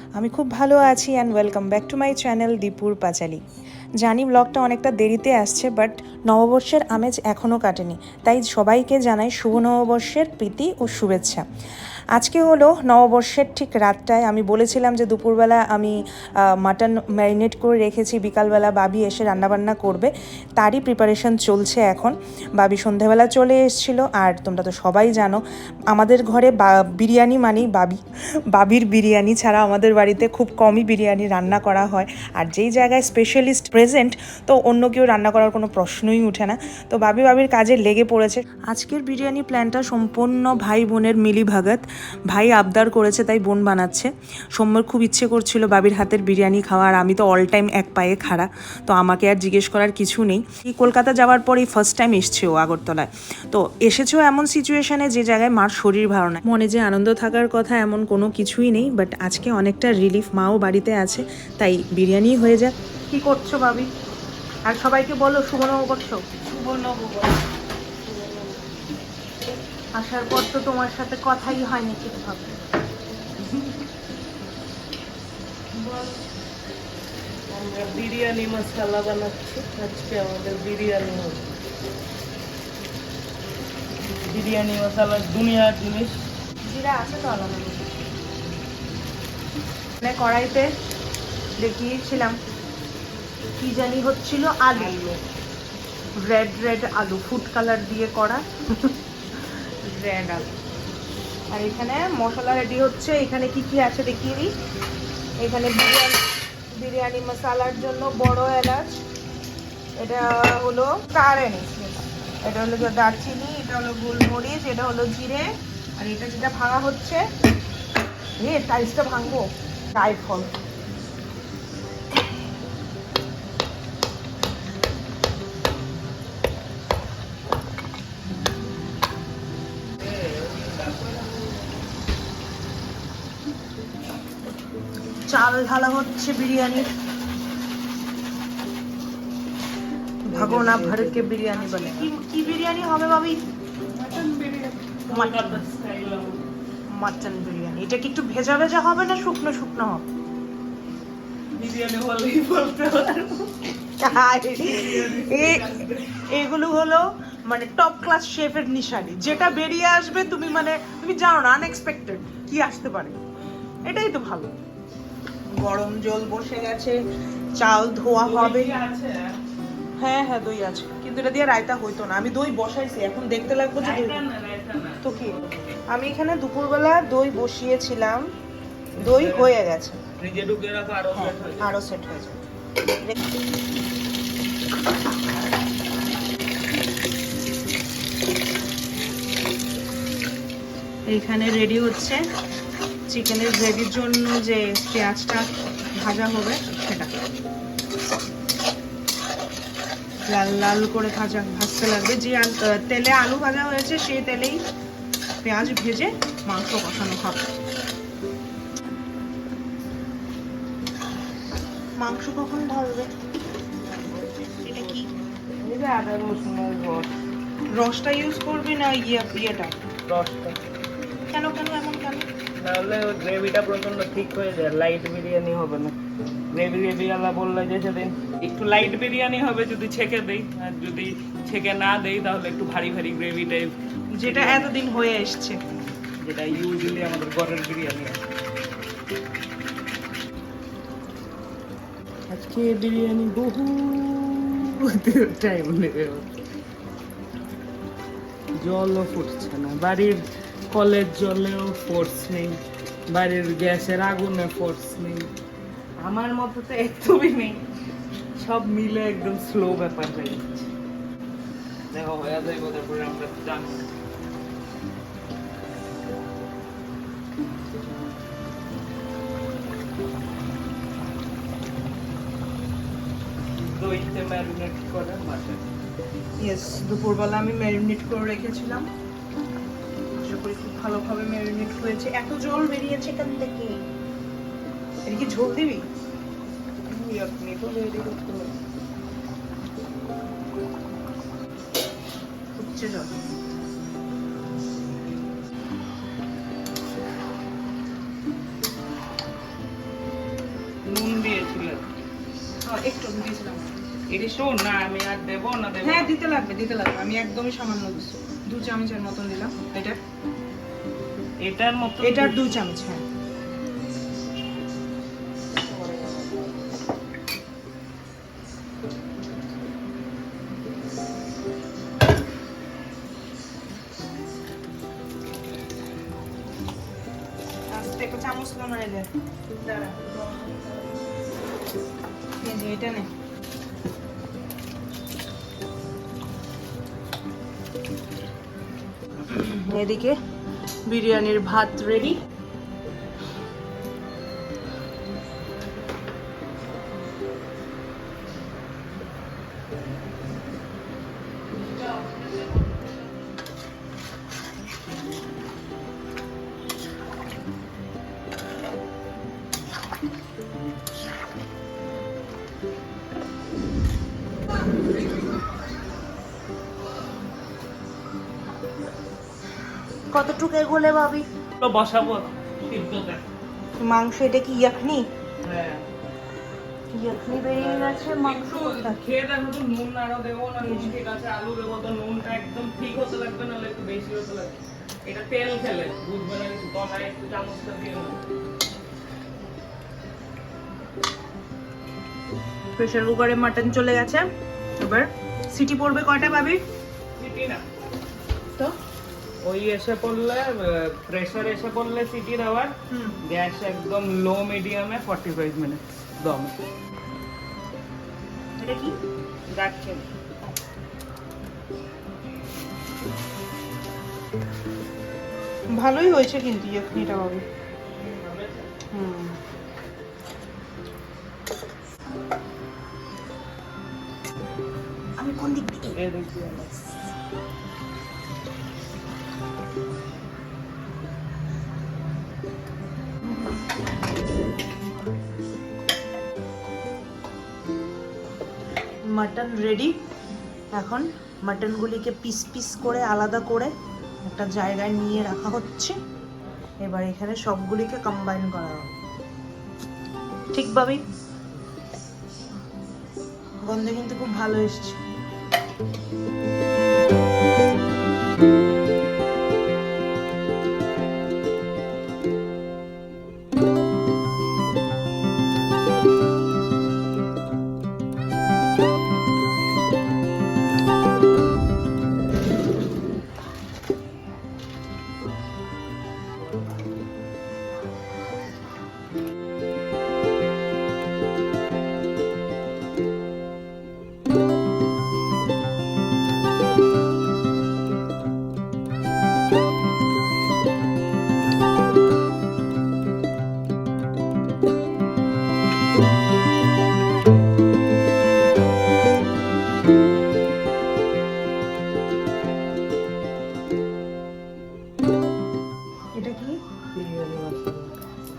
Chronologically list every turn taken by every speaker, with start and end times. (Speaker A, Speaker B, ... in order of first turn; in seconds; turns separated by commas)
Speaker A: 0.2-3.4, Speaker A: 4.0-11.4, Speaker A: 12.2-15.9, Speaker A: 16.6-25.4, Speaker A: 25.9-28.0, Speaker A: 28.5-63.9, Speaker A: 64.7-67.3, Speaker A: 70.0-72.5, Speaker A: 75.8-76.1, Speaker B: 77.5-81.5, Speaker B: 84.3-86.2, Speaker A: 86.7-87.8, Speaker A: 90.0-90.7, Speaker A: 91.6-92.3, Speaker A: 93.6-94.9, Speaker B: 94.7-95.2, Speaker A: 96.2-98.9, Speaker A: 99.9-100.5, Speaker A: 101.5-104.5, Speaker A: 105.4-106.2, Speaker A: 106.7-109.0, Speaker A: 110.0-115.5, Speaker A: 116.0-117.2, Speaker A: 118.4-120.5, Speaker B: 130.0-131.8, Speaker A: 135.3-136.9, Speaker A: 140.3-143.4, Speaker B: 140.3-142.4, Speaker B: 143.9-146.4, Speaker A: 145.1-145.6, Speaker A: 147.0-150.0, Speaker B: 151.6-153.7, Speaker A: 154.0-155.6, Speaker B: 154.6-156.1, Speaker A: 156.1-163.2, Speaker A: 163.8-164.5, Speaker A: 165.6-167.0, Speaker A: 167.6-168.7, Speaker B: 168.2-169.3, Speaker A: 170.0-174.2, Speaker B: 173.8-175.8, Speaker A: 175.0-175.4, Speaker A: 175.9-178.2, Speaker B: 179.0-179.5, Speaker A: 179.0-180.0, Speaker B: 180.2-181.7, Speaker A: 181.1-182.4, Speaker A: 191.1-192.2, Speaker A: 193.1-195.4, Speaker A: 196.0-197.1, Speaker A: 200.3-204.6, Speaker A: 205.4-207.4, Speaker A: 212.0-213.1, Speaker B: 213.9-215.0, Speaker A: 214.6-215.1, Speaker B: 215.6-217.1, Speaker A: 217.7-219.7, Speaker B: 220.1-220.6, Speaker A: 221.3-222.2, Speaker B: 222.6-225.9, Speaker B: 226.5-234.8, Speaker A: 234.2-235.6, Speaker B: 235.7-238.2, Speaker B: 242.3-246.3, Speaker B: 248.6-252.6, Speaker B: 253.1-255.3, Speaker B: 256.0-257.6, Speaker B: 258.4-260.7, Speaker B: 261.9-263.9, Speaker B: 273.6-275.6, Speaker A: 276.4-278.8, Speaker A: 280.2-283.8, Speaker A: 285.1-285.8, Speaker B: 286.9-288.5, Speaker A: 292.6-293.1, Speaker B: 300.9-301.8, Speaker A: 302.6-303.7, Speaker B: 304.1-306.1, Speaker A: 305.8-310.0, Speaker B: 311.4-312.4, Speaker A: 312.0-313.0, Speaker B: 315.9-316.5, Speaker A: 327.7-329.1, Speaker A: 329.6-330.5, Speaker A: 332.4-333.1, Speaker A: 339.3-340.1, Speaker A: 340.9-342.2, Speaker A: 370.1-371.2, Speaker B: 371.6-373.2, Speaker A: 373.8-375.0, Speaker B: 375.4-375.8, Speaker A: 376.9-379.0, Speaker B: 377.2-388.2, Speaker A: 380.6-380.9, Speaker A: 392.8-394.2, Speaker A: 394.8-396.6, Speaker B: 397.2-397.6, Speaker B: 399.4-402.7, Speaker A: 402.9-403.1, Speaker B: 403.2-406.6, Speaker A: 408.6-408.9, Speaker B: 409.5-410.0, Speaker A: 415.8-417.4, Speaker B: 418.2-418.7, Speaker A: 418.9-419.4, Speaker A: 425.2-426.0, Speaker B: 425.9-426.8, Speaker A: 439.1-439.9, Speaker A: 440.7-443.7, Speaker A: 444.2-445.9, Speaker A: 446.8-448.9, Speaker A: 450.5-451.0, Speaker A: 453.7-455.0, Speaker A: 506.1-506.6, Speaker B: 506.9-507.9